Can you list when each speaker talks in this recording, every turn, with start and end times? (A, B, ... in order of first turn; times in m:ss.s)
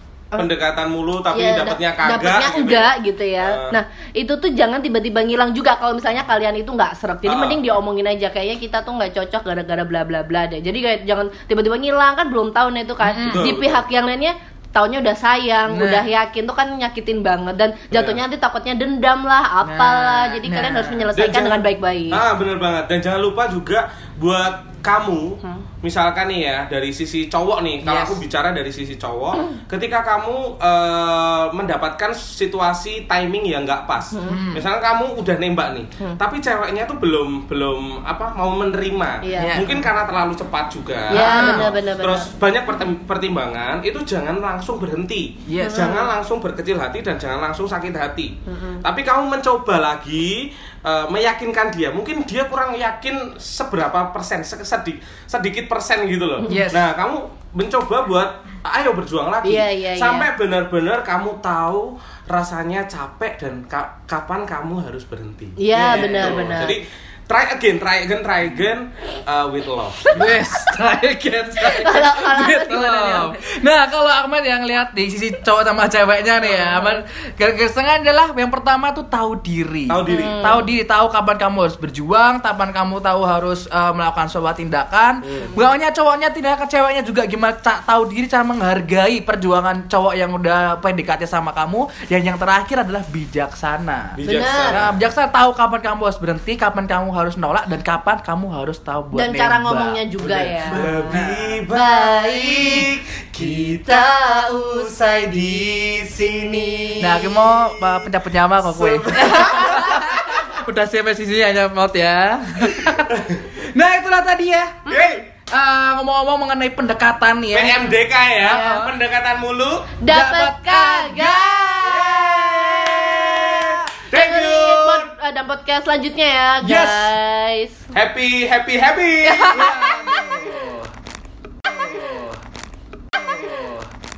0:00.4-0:03.8 A
0:01.3-0:22.2 B
0:07.2-0:07.6 A
0:13.0-0:13.4 C
0:13.3-0:13.8 A
0:15.7-0:16.1 C
0:17.9-0:18.2 A
0:19.6-0:21.1 C
0:21.1-0:21.6 A
0:22.1-1:10.2 A
0:27.8-0:28.2 C
0:34.1-0:34.4 B
0:34.3-0:34.6 C
0:39.2-0:39.6 B
0:39.4-0:39.8 C
0:41.1-0:42.3 B
0:41.1-0:41.7 C
0:45.5-0:45.9 C
0:45.6-0:46.1 B
0:48.5-0:48.8 B
0:56.5-0:56.9 C
0:59.4-1:00.3 B
1:05.6-1:06.8 B
1:05.7-1:06.5 C
1:10.1-1:34.2 C
1:11.6-1:13.4 B
1:19.9-1:20.5 A
1:20.1-1:20.7 B
1:25.2-1:25.5 A
1:34.2-1:34.9 A
1:34.2-1:34.8 B
1:34.7-1:40.0 C
1:39.1-1:41.1 B
1:40.2-1:48.0 A
1:40.7-1:41.6 C
1:41.7-1:42.9 B
1:43.7-1:45.3 B
1:46.5-1:47.0 B
1:47.0-1:55.0 C
1:48.7-1:50.0 A
1:49.2-1:50.3 B
1:52.9-1:53.4 A
1:54.9-1:55.2 A
1:55.5-1:57.9 C
1:57.5-1:59.9 A
1:58.4-1:58.8 B
1:58.5-1:58.9 C
2:00.0-2:07.9 B
2:00.1-2:03.8 C
2:02.0-2:05.1 A
2:06.6-2:07.1 C
2:07.9-2:09.7 A
2:09.2-2:10.0 B
2:09.5-2:10.9 C
2:11.6-2:12.4 C
2:13.1-2:13.9 C